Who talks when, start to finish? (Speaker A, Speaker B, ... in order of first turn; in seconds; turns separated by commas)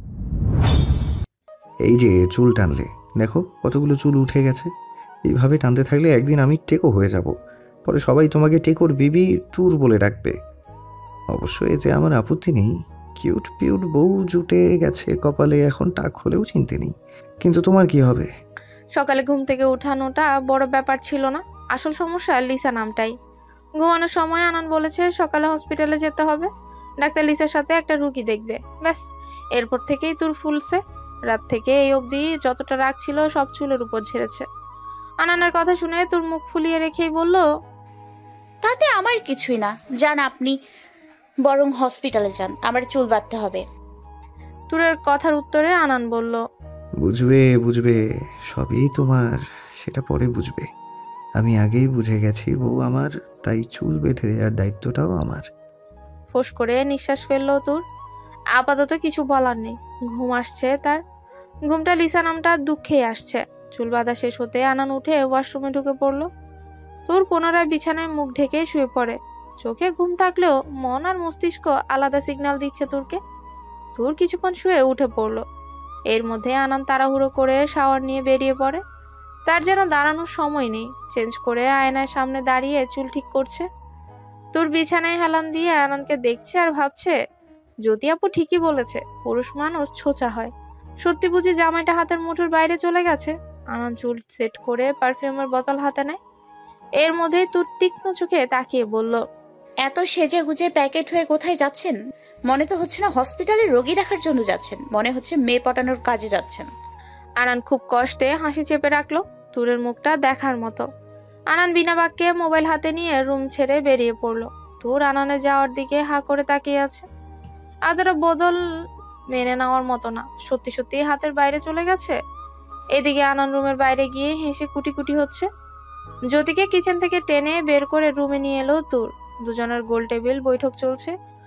Speaker A: 1.8-4.7, Speaker A: 5.3-7.3, Speaker A: 7.9-10.3, Speaker A: 11.3-18.3, Speaker B: 19.0-23.1, Speaker B: 23.8-26.5, Speaker B: 27.0-29.0, Speaker B: 29.6-34.5, Speaker B: 35.2-37.5, Speaker C: 38.6-40.5, Speaker C: 41.5-43.6, Speaker B: 44.7-46.4, Speaker A: 47.0-48.0, Speaker A: 48.5-50.7, Speaker A: 51.4-55.5, Speaker B: 56.3-57.8, Speaker B: 58.6-61.0, Speaker B: 61.7-66.3, Speaker B: 67.1-73.2, Speaker B: 74.0-75.4, Speaker B: 76.1-78.8, Speaker B: 79.5-83.7, Speaker B: 84.5-87.1, Speaker B: 87.9-90.5, Speaker B: 91.0-96.2, Speaker B: 97.0-99.2, Speaker C: 99.8-102.0, Speaker C: 102.5-106.7, Speaker B: 107.4-110.9, Speaker B: 111.5-117.0, Speaker B: 117.9-118.6, Speaker B: 119.3-122.2, Speaker B: 123.0-125.5, Speaker B: 126.3-131.1